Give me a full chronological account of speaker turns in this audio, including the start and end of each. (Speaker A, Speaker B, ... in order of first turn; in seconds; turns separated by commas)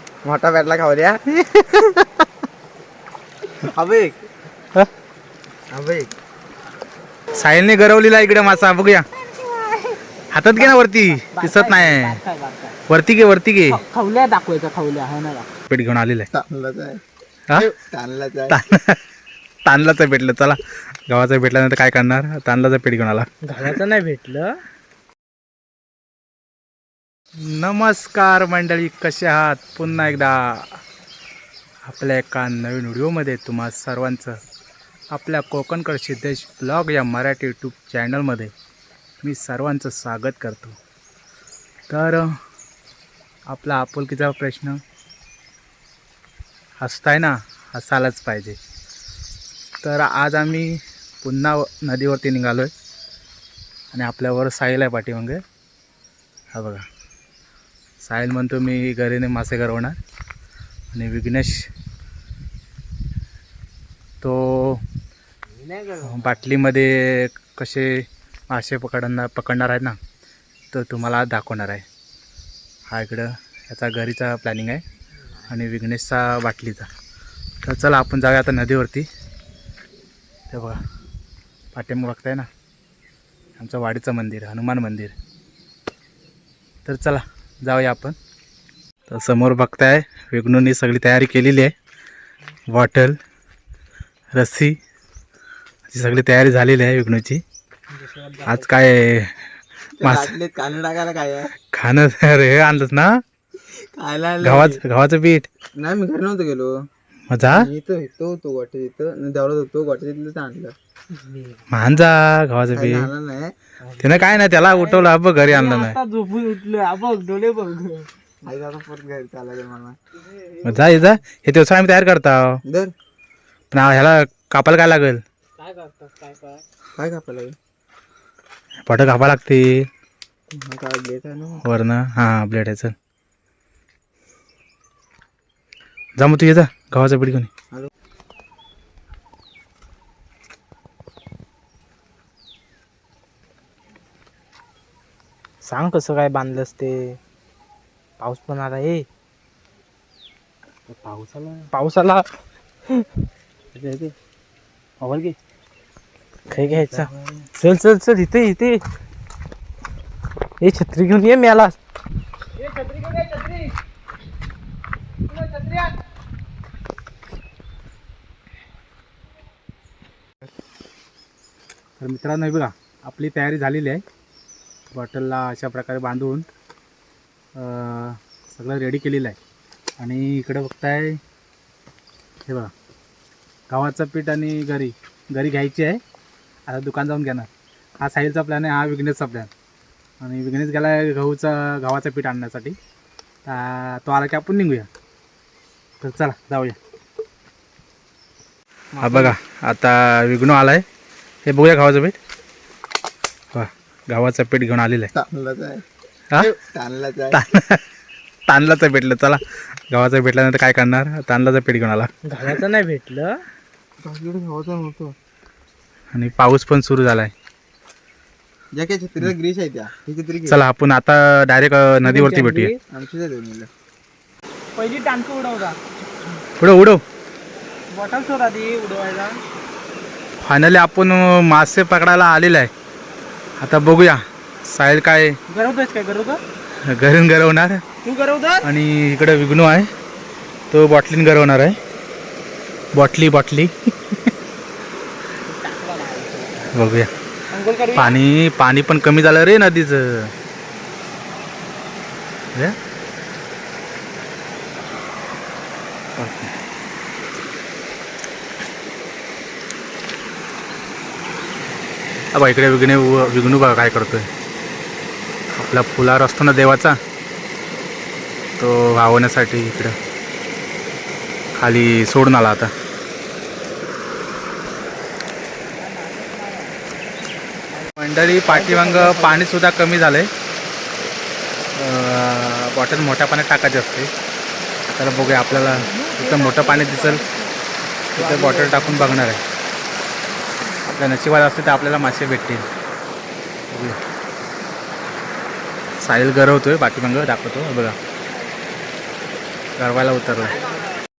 Speaker A: 0.2-2.0, Speaker A: 3.7-4.2, Speaker A: 5.7-6.1, Speaker B: 7.3-9.1, Speaker C: 9.4-10.0, Speaker B: 10.3-12.2, Speaker C: 10.6-12.8, Speaker B: 12.9-13.8, Speaker C: 13.7-15.5, Speaker B: 15.7-16.3, Speaker A: 16.3-17.0, Speaker A: 17.9-18.6, Speaker B: 18.5-19.0, Speaker B: 19.6-23.8, Speaker C: 23.4-24.5, Speaker B: 27.4-30.8, Speaker B: 31.9-34.4, Speaker B: 35.1-38.5, Speaker B: 39.2-40.8, Speaker B: 41.9-42.4, Speaker B: 43.5-44.8, Speaker B: 46.8-48.6, Speaker B: 49.8-52.7, Speaker B: 53.9-55.4, Speaker B: 56.5-56.8, Speaker B: 58.0-60.0, Speaker B: 60.9-61.7, Speaker B: 64.2-64.8, Speaker C: 65.5-66.5, Speaker B: 66.0-70.0, Speaker B: 70.7-71.8, Speaker B: 72.9-74.8, Speaker B: 75.5-76.9, Speaker B: 77.6-79.1, Speaker B: 80.5-80.8, Speaker B: 81.7-82.5, Speaker B: 83.6-85.1, Speaker B: 86.8-88.2, Speaker B: 89.1-91.7, Speaker B: 92.7-93.2, Speaker B: 94.3-94.8, Speaker B: 95.9-97.4, Speaker C: 97.9-98.7, Speaker B: 98.4-99.3, Speaker A: 100.0-101.5, Speaker B: 100.0-100.3, Speaker B: 101.7-103.2, Speaker A: 103.7-104.8, Speaker B: 104.4-105.5, Speaker A: 105.8-106.7, Speaker B: 107.3-107.7, Speaker A: 107.4-110.7, Speaker C: 111.1-112.0, Speaker B: 111.7-113.1, Speaker A: 112.7-113.5, Speaker C: 113.8-118.1, Speaker B: 114.0-116.0, Speaker A: 118.4-120.0, Speaker C: 120.2-121.2, Speaker B: 120.6-122.6, Speaker A: 122.7-122.9, Speaker B: 123.7-125.2, Speaker C: 125.6-126.6, Speaker A: 127.0-127.5, Speaker B: 128.8-129.9, Speaker A: 130.5-131.6, Speaker B: 131.6-132.9, Speaker B: 136.2-137.5, Speaker C: 145.6-147.2, Speaker C: 148.2-149.1, Speaker B: 150.9-151.7, Speaker C: 151.7-152.3, Speaker B: 153.7-154.1, Speaker B: 155.0-155.3, Speaker C: 156.5-158.8, Speaker B: 156.5-157.4, Speaker C: 160.6-161.8, Speaker C: 162.6-163.8, Speaker C: 165.3-166.0, Speaker B: 172.0-174.0, Speaker B: 174.9-176.5, Speaker B: 177.5-179.4, Speaker B: 180.0-181.2, Speaker B: 183.7-186.0, Speaker B: 186.7-187.5, Speaker B: 188.0-189.5, Speaker B: 190.2-192.8, Speaker B: 193.4-194.9, Speaker B: 196.0-196.8, Speaker C: 198.9-199.3, Speaker B: 199.0-200.8, Speaker B: 201.4-202.2, Speaker B: 203.5-205.1, Speaker A: 205.1-205.8, Speaker A: 206.7-207.4, Speaker B: 207.3-207.8, Speaker B: 208.5-212.1, Speaker C: 212.2-213.4, Speaker A: 214.0-215.1, Speaker B: 216.1-217.3, Speaker A: 218.7-220.6, Speaker B: 220.5-222.7, Speaker C: 222.0-222.8, Speaker A: 222.9-223.7, Speaker C: 224.8-225.8, Speaker B: 226.6-227.0, Speaker C: 227.9-229.4, Speaker B: 230.4-232.7, Speaker B: 233.6-235.4, Speaker C: 235.5-236.4, Speaker B: 236.9-237.8, Speaker C: 238.0-238.7, Speaker B: 238.6-239.9, Speaker B: 240.7-241.8, Speaker B: 242.9-244.3, Speaker C: 245.4-246.7, Speaker B: 246.7-247.1, Speaker C: 247.5-248.2, Speaker B: 247.9-250.3, Speaker B: 256.2-256.5, Speaker B: 262.3-264.3, Speaker B: 265.5-267.0, Speaker B: 268.6-269.9, Speaker B: 271.6-272.7, Speaker C: 275.8-276.8, Speaker B: 277.9-280.3, Speaker C: 278.4-279.5, Speaker B: 281.8-284.1, Speaker B: 284.9-287.2, Speaker C: 285.0-287.6, Speaker B: 288.1-289.4, Speaker C: 288.1-289.3, Speaker B: 290.9-292.6, Speaker B: 293.7-294.0, Speaker B: 296.0-297.9, Speaker B: 299.8-300.6